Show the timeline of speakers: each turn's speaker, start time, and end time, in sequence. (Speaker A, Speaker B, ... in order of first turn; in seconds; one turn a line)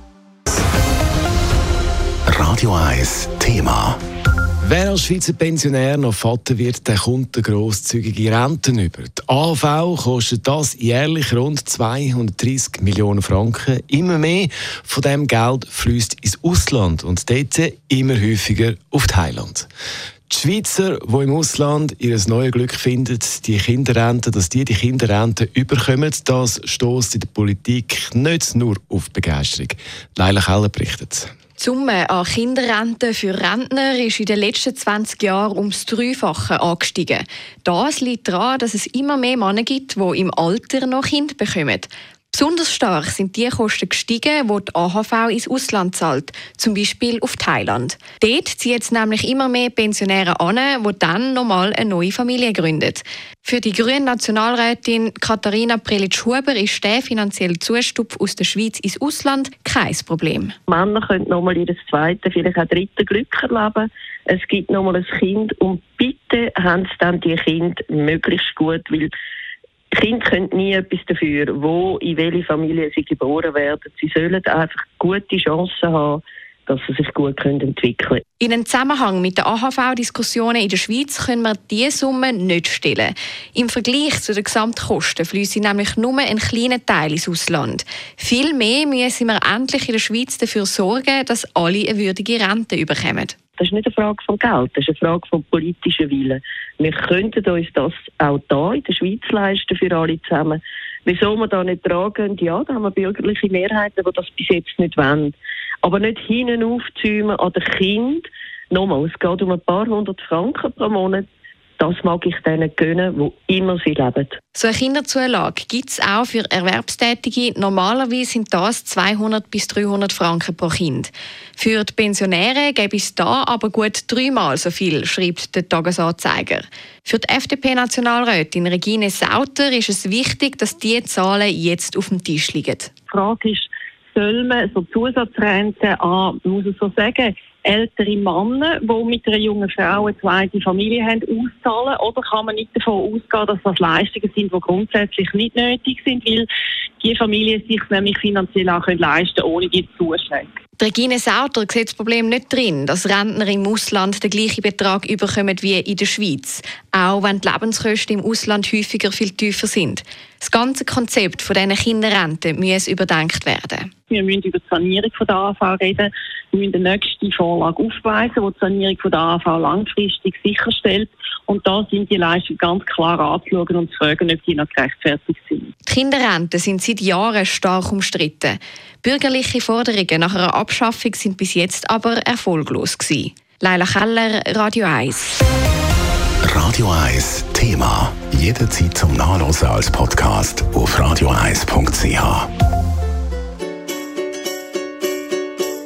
Speaker A: 2.3-4.0
Speaker B: 4.6-19.7
Speaker B: 20.3-31.3
Speaker C: 31.6-60.5
Speaker D: 60.7-69.1
Speaker D: 69.9-78.2
Speaker C: 78.4-93.3
Speaker D: 93.6-111.2
Speaker D: 111.8-114.4
Speaker C: 114.5-132.9
Speaker E: 133.1-146.5
Speaker E: 147.0-150.5
Speaker C: 150.8-163.9
Speaker E: 164.1-175.7
Speaker C: 175.8-185.4
Speaker A: 186.4-192.5